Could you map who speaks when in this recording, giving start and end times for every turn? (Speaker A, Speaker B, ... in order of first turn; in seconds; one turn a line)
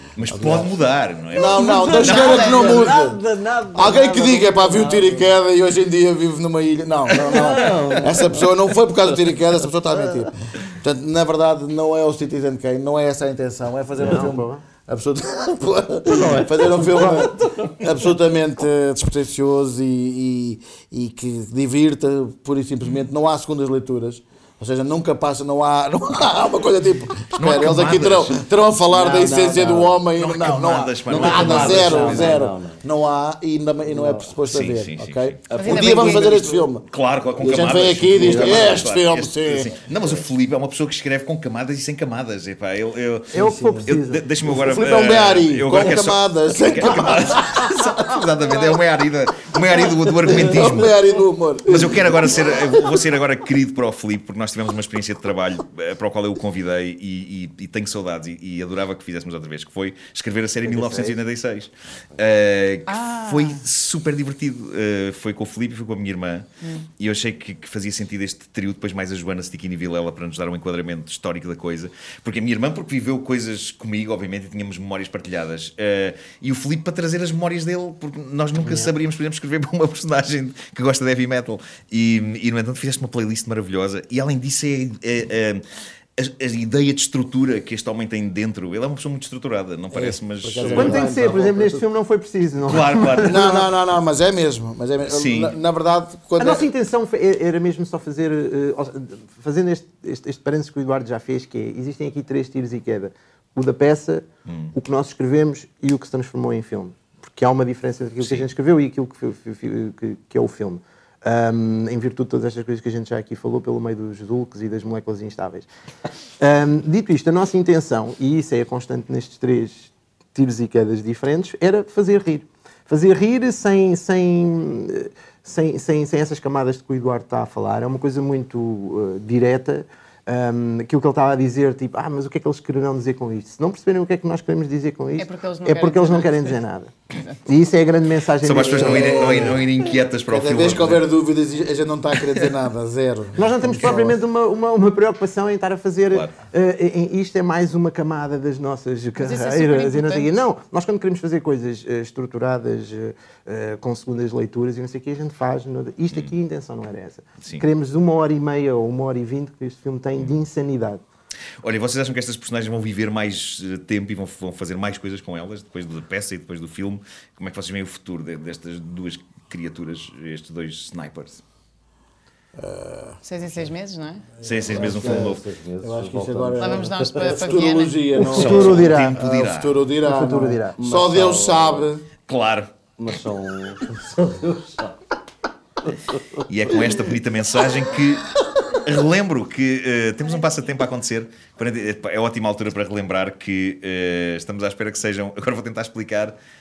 Speaker A: 0.2-2.7
Speaker B: 0.3-0.8
Speaker B: 1.3-36.9
Speaker C: 1.6-2.9
Speaker D: 1.7-5.3
Speaker D: 7.2-8.5
Speaker E: 14.0-14.6
Speaker D: 16.1-17.8
Speaker A: 27.4-28.5
Speaker D: 28.9-29.9
Speaker A: 30.1-32.5
Speaker D: 31.1-32.8
Speaker D: 33.9-34.3
Speaker A: 34.5-35.4
Speaker D: 35.5-36.4
Speaker C: 35.5-36.6
Speaker A: 36.9-51.0
Speaker B: 37.4-39.8
Speaker D: 38.2-38.8
Speaker E: 43.3-44.2
Speaker B: 43.3-48.0
Speaker B: 49.8-53.0
Speaker A: 51.7-85.6
Speaker D: 60.7-61.1
Speaker C: 62.9-63.6
Speaker C: 66.6-66.9
Speaker A: 86.2-91.0
Speaker B: 89.9-91.8
Speaker E: 90.7-93.7
Speaker D: 90.7-91.0
Speaker A: 92.7-93.7
Speaker B: 93.2-96.7
Speaker A: 95.1-95.6
Speaker E: 96.4-115.7
Speaker A: 104.5-104.7
Speaker E: 116.4-136.9
Speaker C: 135.2-136.6
Speaker C: 137.1-137.4
Speaker E: 137.4-139.5
Speaker A: 138.4-141.0
Speaker B: 138.6-144.2
Speaker E: 143.4-161.0
Speaker C: 149.2-150.3
Speaker A: 161.6-171.4
Speaker B: 172.6-173.2
Speaker C: 173.2-174.3
Speaker A: 174.4-175.4
Speaker B: 174.4-182.1
Speaker D: 174.7-177.4
Speaker C: 176.6-178.1
Speaker E: 178.2-179.2
Speaker D: 178.3-178.9
Speaker A: 178.5-179.8
Speaker E: 180.0-180.8
Speaker D: 180.8-181.9
Speaker A: 182.3-182.7
Speaker D: 183.0-185.0
Speaker D: 185.9-186.2
Speaker A: 186.5-196.3